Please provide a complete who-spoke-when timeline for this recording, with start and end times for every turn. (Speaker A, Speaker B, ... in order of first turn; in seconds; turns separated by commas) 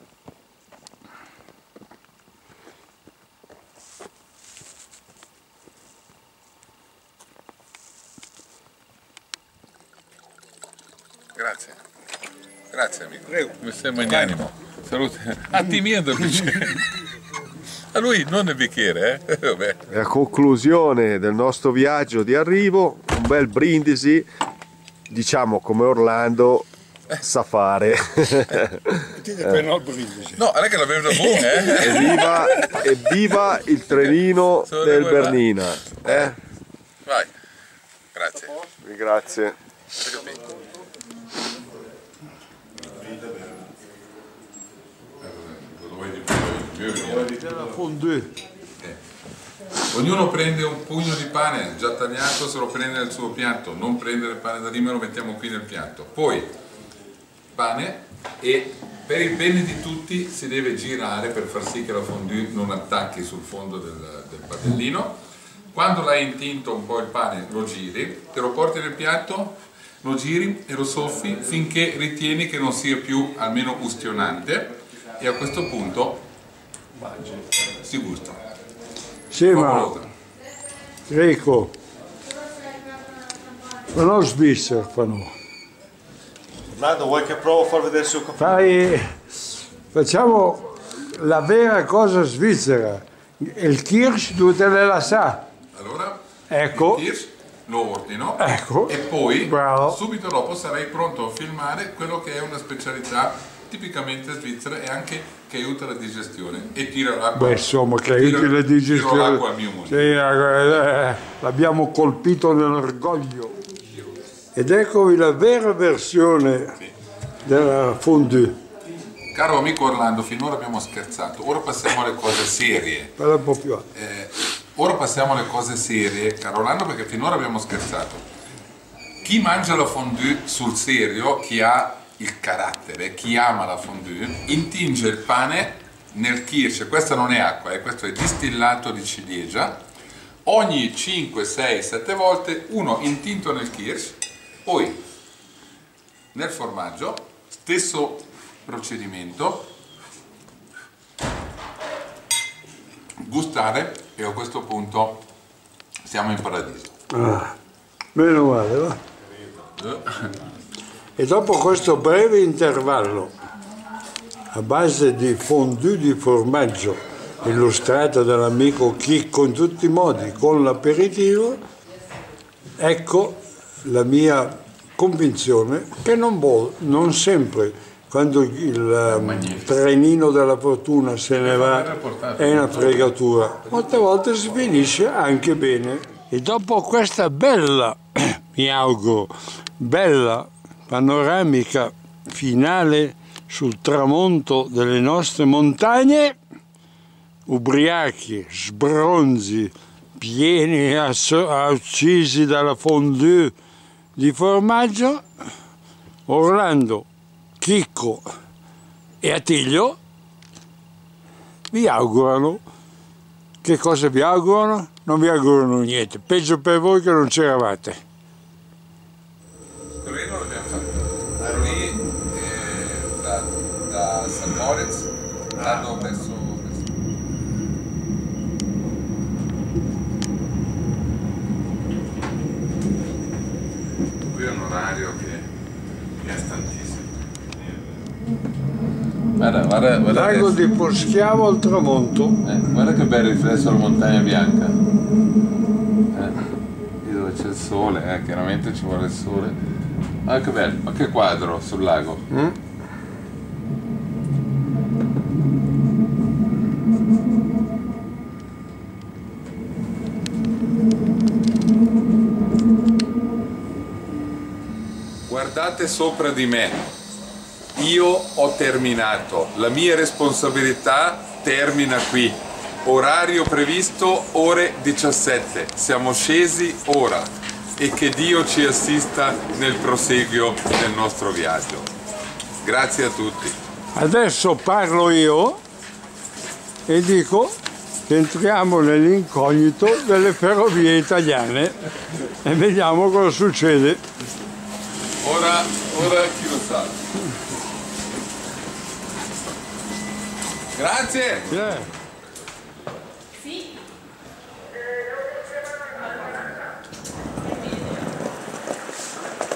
Speaker A: 11.3-11.8, Speaker A: 12.7-16.9, Speaker A: 17.9-19.8, Speaker B: 19.9-24.3, Speaker B: 25.1-29.6, Speaker C: 29.2-30.4, Speaker A: 30.4-32.8, Speaker B: 31.5-36.4, Speaker A: 34.7-35.4, Speaker A: 36.0-36.3, Speaker A: 37.1-37.3, Speaker A: 38.1-38.6, Speaker B: 38.8-39.6, Speaker A: 40.0-40.4, Speaker B: 42.8-43.6, Speaker A: 45.2-47.3, Speaker B: 47.0-47.7, Speaker C: 47.4-48.4, Speaker A: 49.9-56.5, Speaker A: 57.5-65.2, Speaker A: 65.7-76.2, Speaker B: 77.0-77.4, Speaker A: 77.8-78.4, Speaker C: 79.3-80.0, Speaker A: 79.5-80.1, Speaker C: 81.1-81.8, Speaker C: 83.9-85.3, Speaker B: 86.7-88.7, Speaker C: 88.4-89.2, Speaker C: 89.9-95.5, Speaker A: 95.7-110.1, Speaker C: 96.5-97.1, Speaker C: 98.4-100.0, Speaker C: 107.4-113.6, Speaker C: 114.5-116.8, Speaker C: 117.5-118.6, Speaker A: 119.3-123.1, Speaker C: 123.2-123.9, Speaker A: 123.9-128.2, Speaker A: 129.2-139.9, Speaker A: 140.4-145.0, Speaker A: 146.3-149.7, Speaker A: 153.2-155.2, Speaker A: 156.0-156.9, Speaker C: 157.1-157.6, Speaker C: 158.1-159.0, Speaker C: 161.2-163.3, Speaker C: 164.5-171.6, Speaker C: 172.8-196.4, Speaker A: 179.1-179.8, Speaker A: 181.4-183.1, Speaker A: 183.6-183.9, Speaker C: 197.5-203.6, Speaker C: 204.2-205.2, Speaker C: 206.3-207.1, Speaker C: 207.6-208.3, Speaker C: 209.2-210.0, Speaker C: 211.7-212.6, Speaker C: 213.6-218.0, Speaker A: 219.9-226.9, Speaker B: 221.4-221.8, Speaker B: 225.6-225.9, Speaker A: 234.2-235.5, Speaker A: 236.2-237.2, Speaker A: 239.4-240.6, Speaker C: 240.1-242.4, Speaker A: 242.4-244.8, Speaker A: 246.1-246.4, Speaker A: 247.0-249.6, Speaker A: 250.2-252.2, Speaker C: 252.3-252.6, Speaker A: 265.3-267.0, Speaker A: 267.7-281.9, Speaker A: 282.6-283.6, Speaker C: 283.9-285.6, Speaker C: 286.9-294.0, Speaker A: 295.2-297.1, Speaker A: 300.7-303.0, Speaker C: 301.5-301.9